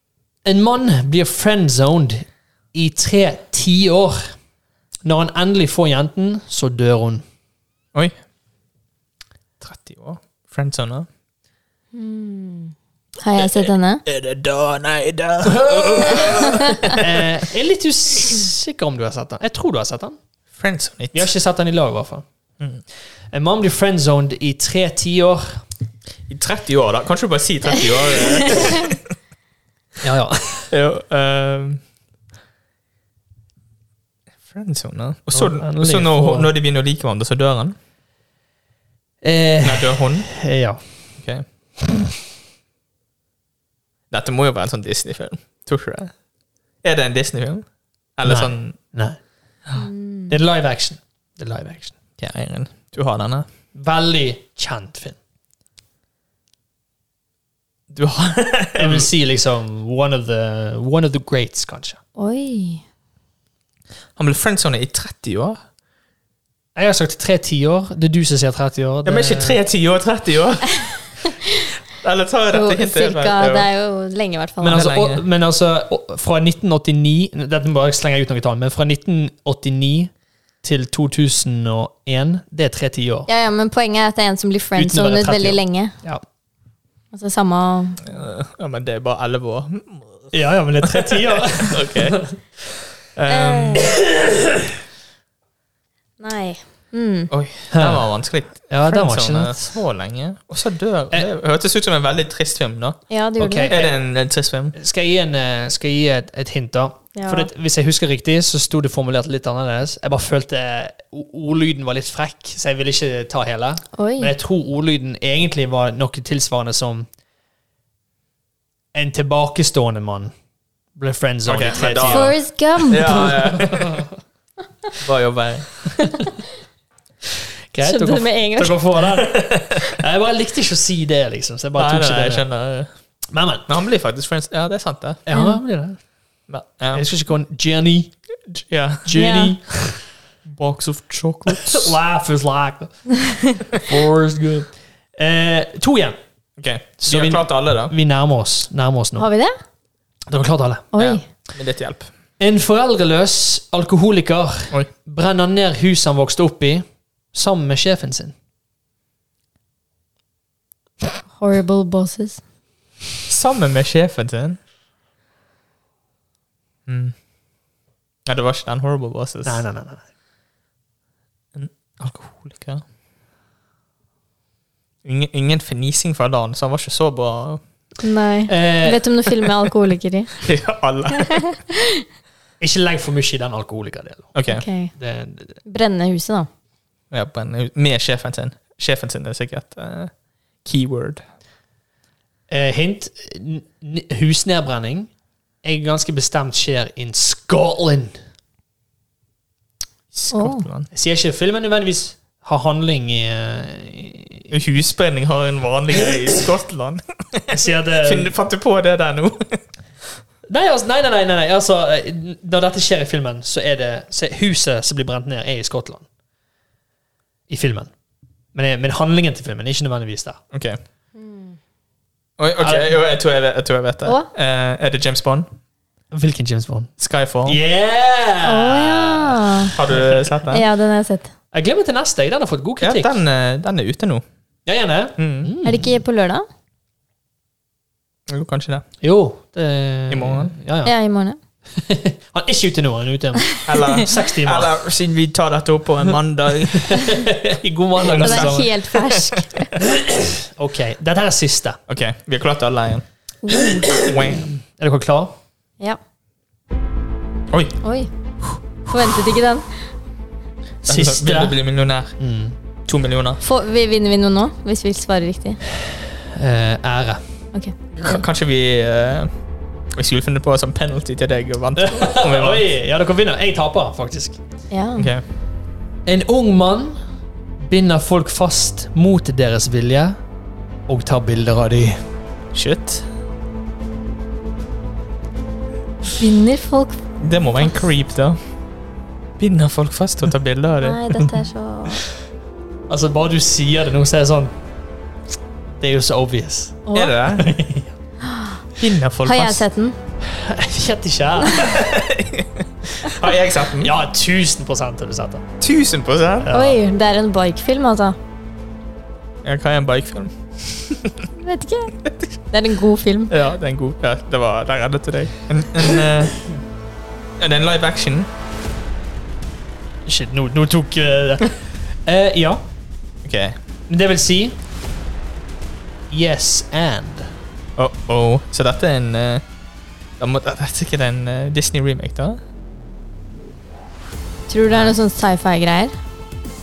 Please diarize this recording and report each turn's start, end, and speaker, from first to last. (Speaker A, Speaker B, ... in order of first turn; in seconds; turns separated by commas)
Speaker A: 0.4-4.3, Speaker A: 5.0-7.2, Speaker B: 9.6-11.1, Speaker C: 11.9-14.0, Speaker B: 13.3-17.2, Speaker A: 15.4-16.4, Speaker C: 16.2-17.0, Speaker A: 16.9-20.2, Speaker B: 20.6-21.3, Speaker A: 21.1-22.2, Speaker A: 23.3-25.6, Speaker B: 26.3-29.0, Speaker A: 30.0-30.7, Speaker B: 30.7-31.8, Speaker B: 34.5-37.8, Speaker A: 35.3-36.5, Speaker A: 39.2-40.8, Speaker B: 39.6-40.3, Speaker B: 44.1-46.1, Speaker B: 46.8-48.8, Speaker A: 48.2-49.2, Speaker C: 49.8-50.3, Speaker A: 50.3-52.0, Speaker B: 52.2-53.5, Speaker A: 53.7-55.2, Speaker B: 57.9-59.1, Speaker A: 58.8-62.0, Speaker C: 62.1-62.8, Speaker B: 64.2-65.6, Speaker A: 66.7-69.6, Speaker B: 69.0-71.2, Speaker C: 71.2-71.5, Speaker B: 71.9-73.7, Speaker C: 72.5-74.8, Speaker A: 74.6-80.1, Speaker B: 74.7-75.2, Speaker A: 80.6-83.3, Speaker C: 83.3-85.9, Speaker A: 84.8-86.2, Speaker C: 87.1-88.0, Speaker B: 88.0-90.3, Speaker A: 90.3-92.3, Speaker B: 91.6-92.3, Speaker B: 93.1-93.9, Speaker C: 93.3-93.9, Speaker A: 93.8-94.6, Speaker C: 96.2-97.3, Speaker B: 97.3-103.0, Speaker A: 97.7-99.8, Speaker C: 103.1-103.8, Speaker A: 103.4-103.9, Speaker B: 103.7-104.8, Speaker A: 104.7-117.1, Speaker C: 107.1-107.5, Speaker C: 114.0-114.3, Speaker A: 118.9-120.3, Speaker A: 120.9-122.3, Speaker B: 121.4-124.1, Speaker C: 121.8-123.3, Speaker A: 123.5-124.0, Speaker B: 125.0-125.8, Speaker C: 126.0-126.3, Speaker A: 127.7-132.4, Speaker C: 127.8-128.8, Speaker B: 129.2-129.8, Speaker B: 131.8-132.9, Speaker A: 133.3-133.7, Speaker B: 133.7-135.2, Speaker A: 135.2-136.0, Speaker C: 135.3-135.6, Speaker B: 136.5-137.0, Speaker A: 136.9-138.1, Speaker B: 138.5-139.4, Speaker A: 139.0-140.0, Speaker C: 139.1-139.5, Speaker B: 140.4-142.0, Speaker A: 141.5-143.0, Speaker A: 143.6-146.1, Speaker B: 146.6-147.9, Speaker A: 147.0-149.3, Speaker C: 149.2-149.5, Speaker A: 150.3-150.9, Speaker C: 150.9-151.2, Speaker B: 150.9-152.1, Speaker A: 152.4-158.3, Speaker C: 161.3-162.4, Speaker B: 163.2-164.6, Speaker B: 166.9-167.1, Speaker B: 168.2-169.6, Speaker A: 169.4-170.0, Speaker B: 171.5-172.8, Speaker B: 175.0-177.6, Speaker C: 178.0-180.5, Speaker A: 178.5-179.0, Speaker B: 180.4-181.6, Speaker A: 182.6-184.3, Speaker B: 184.3-184.6, Speaker C: 184.5-184.9, Speaker A: 184.9-185.6, Speaker C: 185.6-186.5, Speaker B: 187.1-191.2, Speaker A: 192.5-195.1, Speaker A: 195.6-198.1, Speaker B: 200.1-200.9, Speaker C: 200.3-200.7, Speaker A: 200.9-204.5, Speaker B: 204.5-209.6, Speaker A: 207.5-208.3, Speaker A: 210.5-216.1, Speaker A: 217.5-217.9, Speaker A: 218.5-220.4, Speaker B: 220.5-220.8, Speaker C: 221.2-221.6, Speaker B: 222.4-225.5, Speaker A: 222.6-222.9, Speaker A: 226.1-226.9, Speaker B: 227.0-227.6, Speaker A: 227.4-230.3, Speaker C: 228.4-229.7, Speaker B: 229.7-230.6, Speaker C: 230.5-231.3, Speaker A: 231.5-233.2, Speaker B: 232.8-234.2, Speaker A: 234.7-236.0, Speaker B: 235.2-235.5, Speaker C: 235.6-236.4, Speaker B: 238.3-238.8, Speaker A: 239.0-240.9, Speaker B: 240.1-240.5, Speaker C: 240.8-241.4, Speaker A: 241.8-244.7, Speaker B: 243.6-247.2, Speaker A: 246.8-248.7, Speaker B: 248.0-249.4, Speaker C: 248.2-249.7, Speaker A: 249.8-251.8, Speaker B: 251.9-253.0, Speaker C: 253.4-253.9, Speaker A: 253.8-255.3, Speaker B: 253.8-254.5, Speaker B: 257.5-257.8, Speaker C: 257.8-258.1, Speaker C: 258.9-259.7, Speaker A: 260.8-261.6, Speaker B: 260.8-262.1, Speaker A: 262.2-262.6, Speaker B: 262.9-263.4, Speaker C: 263.4-265.6, Speaker A: 266.2-267.2, Speaker C: 267.5-268.2, Speaker B: 267.9-269.3, Speaker B: 269.9-272.6, Speaker A: 271.8-274.4, Speaker C: 274.7-275.1, Speaker B: 275.0-275.2, Speaker A: 276.1-277.0, Speaker A: 277.6-280.2, Speaker A: 280.9-282.0, Speaker B: 282.5-283.1, Speaker C: 286.1-287.0, Speaker B: 287.2-288.4, Speaker B: 289.4-291.3, Speaker C: 290.8-292.0, Speaker A: 292.9-294.5, Speaker A: 295.8-297.9, Speaker C: 296.9-297.1, Speaker B: 296.9-297.6, Speaker C: 298.2-298.6, Speaker B: 298.8-299.6, Speaker C: 299.2-300.0, Speaker A: 300.2-301.9, Speaker B: 301.5-303.9, Speaker A: 303.8-305.4, Speaker B: 305.6-306.5, Speaker A: 306.4-306.8, Speaker C: 306.5-308.2, Speaker B: 309.4-311.3, Speaker C: 311.4-311.9, Speaker C: 312.5-313.3, Speaker B: 313.3-316.4, Speaker B: 317.4-318.3, Speaker A: 320.1-322.6, Speaker B: 323.2-323.6, Speaker A: 323.9-324.6, Speaker A: 326.1-327.4, Speaker B: 327.8-329.4, Speaker B: 330.2-332.4, Speaker C: 334.5-335.9